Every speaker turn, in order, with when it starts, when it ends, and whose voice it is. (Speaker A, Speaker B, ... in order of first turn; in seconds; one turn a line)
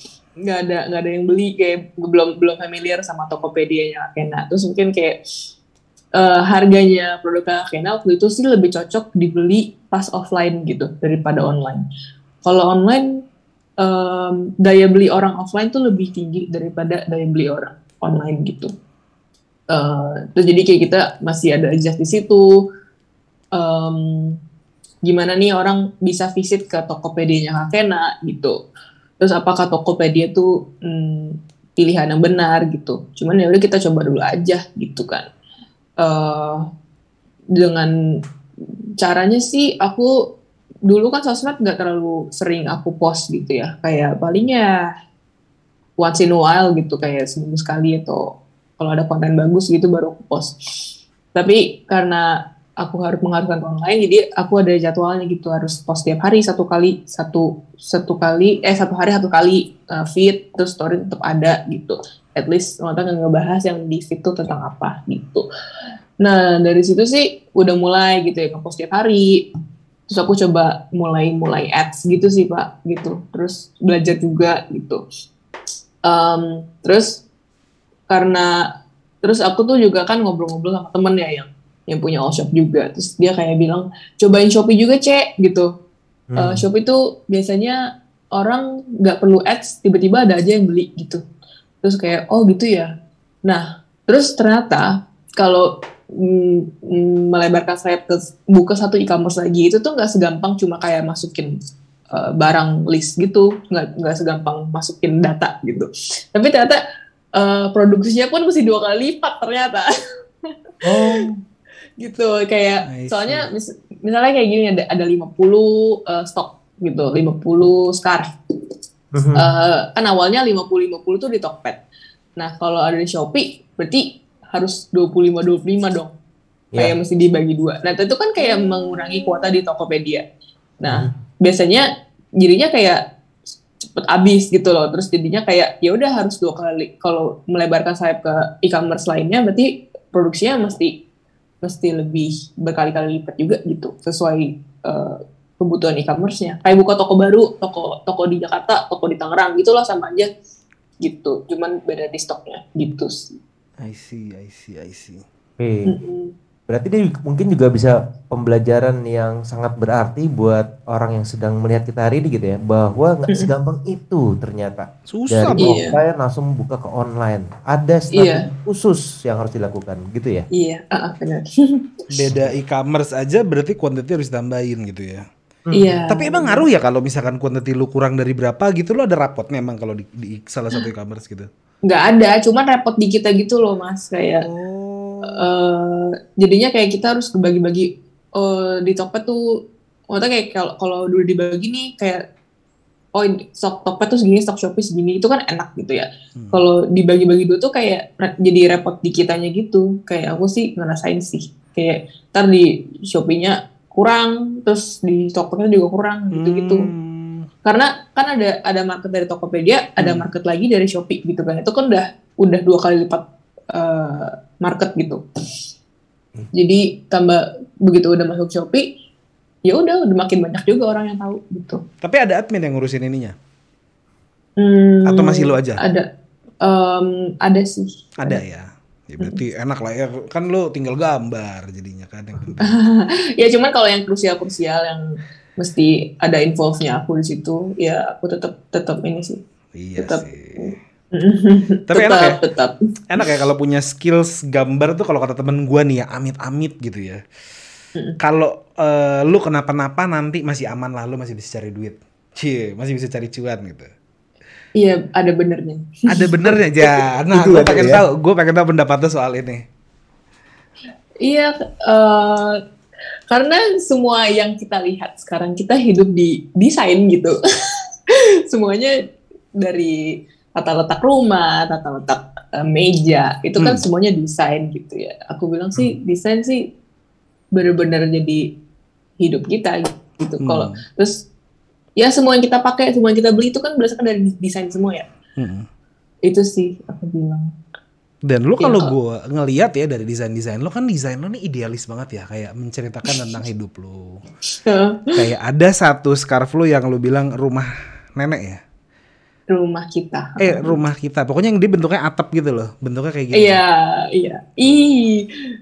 Speaker A: 0.4-5.2
Speaker A: 6.2-11.8
Speaker A: 12.4-13.1
Speaker A: 13.8-18.7
Speaker A: 19.7-22.5
Speaker A: 23.5-24.4
Speaker A: 25.0-28.6
Speaker A: 29.2-35.2
Speaker A: 36.0-36.6
Speaker A: 37.5-37.9
Speaker A: 39.0-40.1
Speaker A: 40.9-44.9
Speaker A: 46.0-65.5
Speaker A: 66.2-69.4
Speaker A: 70.1-75.0
Speaker A: 76.0-77.2
Speaker A: 78.1-78.5
Speaker A: 79.2-85.7
Speaker B: 86.3-86.6
Speaker A: 86.4-87.8
Speaker A: 88.3-91.2
Speaker A: 91.8-92.9
Speaker A: 93.5-101.5
Speaker A: 102.1-106.8
Speaker A: 107.3-109.9
Speaker C: 110.9-111.3
Speaker A: 112.0-118.3
Speaker C: 112.9-113.5
Speaker B: 119.1-119.5
Speaker A: 119.3-121.8
Speaker A: 122.4-126.1
Speaker A: 126.8-130.2
Speaker A: 130.8-131.9
Speaker A: 132.4-133.0
Speaker A: 133.8-140.9
Speaker A: 141.6-150.3
Speaker A: 151.0-153.3
Speaker C: 153.8-155.2
Speaker B: 155.6-155.9
Speaker A: 155.8-156.3
Speaker B: 156.7-170.4
Speaker C: 165.1-165.7
Speaker A: 165.6-165.9
Speaker A: 168.1-168.4
Speaker A: 170.5-171.8
Speaker C: 172.1-175.2
Speaker B: 175.7-175.9
Speaker A: 175.7-176.7
Speaker C: 176.1-181.5
Speaker A: 181.8-184.4
Speaker C: 184.4-185.5
Speaker A: 185.3-189.4
Speaker A: 190.1-192.2
Speaker A: 193.1-206.9
Speaker C: 196.4-196.6
Speaker C: 206.3-207.5
Speaker A: 207.6-215.2
Speaker C: 210.0-210.3
Speaker A: 216.5-218.8
Speaker A: 219.7-221.8
Speaker C: 222.0-223.3
Speaker A: 224.6-226.1
Speaker C: 225.1-225.8
Speaker A: 226.6-228.4
Speaker C: 228.2-232.8
Speaker A: 232.6-239.4
Speaker C: 239.7-240.7
Speaker A: 240.0-243.3
Speaker C: 241.9-242.4
Speaker C: 243.1-247.2
Speaker C: 248.2-253.9
Speaker A: 254.8-256.5
Speaker C: 256.1-259.6
Speaker B: 257.3-258.0
Speaker A: 261.2-262.6
Speaker A: 263.3-267.4
Speaker A: 268.1-268.9
Speaker A: 269.6-270.0
Speaker A: 270.6-276.6
Speaker A: 277.5-278.4
Speaker A: 279.2-281.2
Speaker C: 280.4-280.8
Speaker A: 282.0-285.1
Speaker C: 285.4-285.7
Speaker A: 286.2-287.5
Speaker C: 288.2-294.2
Speaker A: 288.6-288.9
Speaker A: 294.6-295.1
Speaker C: 295.1-298.6
Speaker A: 299.5-300.8
Speaker C: 300.4-303.6
Speaker A: 303.3-305.2